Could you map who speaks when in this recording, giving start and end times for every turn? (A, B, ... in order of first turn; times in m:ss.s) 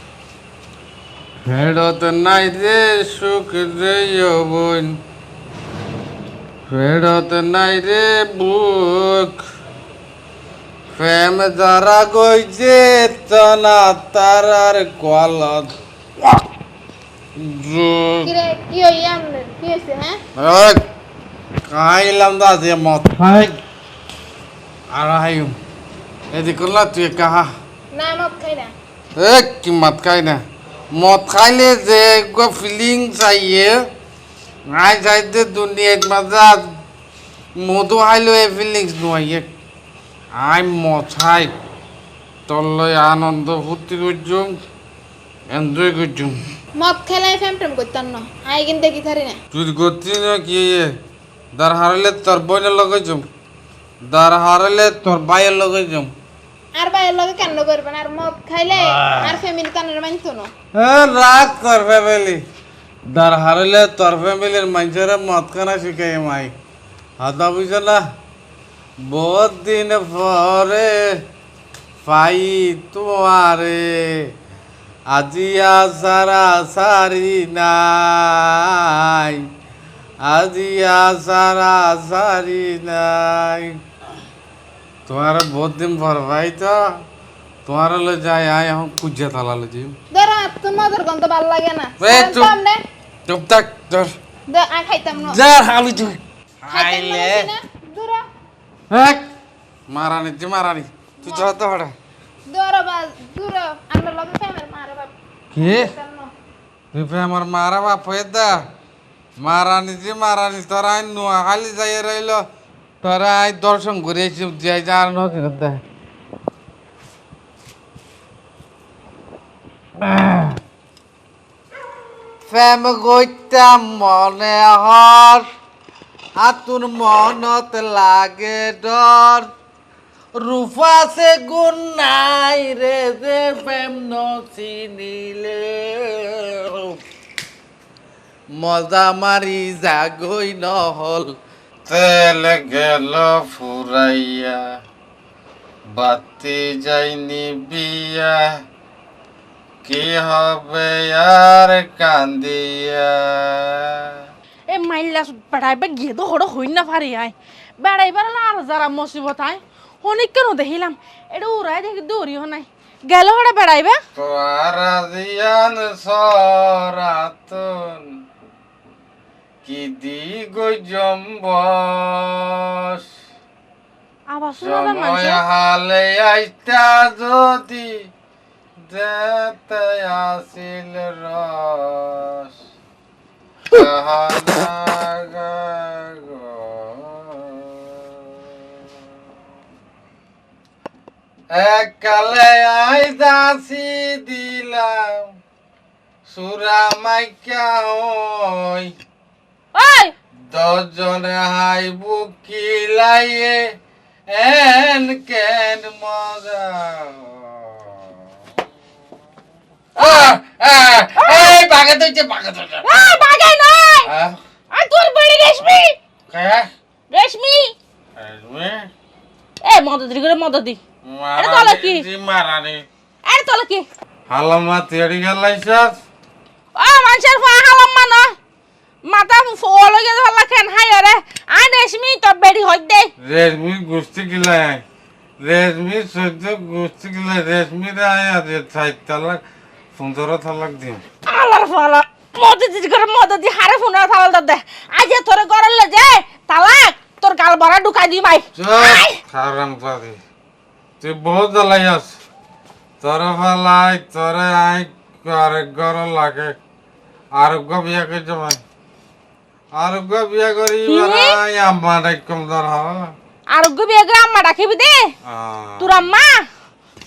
0:01.5-0:05.0 A
0:06.7-0:09.4 A
0:11.0-0:15.7 A
0:17.4-0:18.3 A
0:18.2-0:20.2 B
0:20.4-0:20.8 A
0:21.7-0:23.6 A
0:24.9-0:25.6 A
0:26.3-0:27.5 A
0:27.9-0:28.7 B
0:29.2-0:33.8 A
0:34.7-0:36.6 A
0:37.6-0:39.5 A
0:40.3-0:41.5 A
0:42.5-0:44.6 A
0:45.5-0:46.4 A
0:46.8-0:49.4 B
0:49.5-0:50.9 A
0:51.6-0:53.3 A
0:54.0-0:56.1 A
0:56.8-1:00.5 B
0:58.8-0:59.4 A
1:00.8-1:02.4 A
1:03.0-1:06.5 A
1:07.2-1:08.0 A
1:09.0-1:11.2 A
1:12.0-1:14.3 A
1:15.1-1:19.5 A
1:20.2-1:23.8 A
1:25.1-1:27.0 A
1:27.6-1:30.0 A
1:30.1-1:32.8 B
1:32.0-1:32.5 A
1:33.3-1:34.1 A
1:34.5-1:35.4 B
1:35.2-1:37.5 A
1:36.7-1:38.2 B
1:38.9-1:39.2 A
1:39.9-1:41.9 A
1:41.2-1:41.5 B
1:42.5-1:46.3 B
1:45.5-1:45.9 A
1:46.9-1:48.6 A
1:49.4-1:52.4 A
1:53.0-1:55.8 A
2:00.0-2:00.6 A
2:02.5-2:05.5 A
2:06.4-2:09.5 A
2:10.4-2:17.0 A
2:18.5-2:24.6 A
2:25.9-2:28.6 A
2:29.8-2:34.2 A
2:34.7-2:44.0 C
2:44.2-2:48.1 A
2:49.6-2:53.0 A
2:54.3-2:55.4 C
2:54.6-2:58.0 A
2:58.9-3:02.5 A
3:03.7-3:07.7 A
3:11.5-3:15.3 A
3:16.3-3:18.9 A
3:19.8-3:20.1 C
3:20.5-3:23.6 A
3:24.3-3:27.9 A
3:30.0-3:33.0 A
3:31.2-3:31.6 C
3:32.8-3:34.1 C
3:34.1-3:34.4 A
3:34.7-3:36.0 C
3:36.3-3:36.7 A
3:37.1-3:37.7 C
3:38.2-3:38.9 A
3:39.6-3:40.8 C
3:41.0-3:42.8 A
3:41.4-3:42.0 C
3:43.3-3:43.8 C
3:44.3-3:46.0 A
3:46.8-3:48.3 C
3:49.1-3:53.1 C
3:53.2-3:54.8 A
3:55.4-3:59.4 A
4:00.0-4:01.0 A
4:01.3-4:09.2 C
4:08.6-4:10.2 A
4:11.0-4:12.1 A
4:13.0-4:16.6 A
4:17.3-4:18.6 A
4:19.7-4:23.1 A
4:20.9-4:21.4 C
4:23.5-4:25.1 C
4:25.3-4:25.9 A
4:25.8-4:26.4 C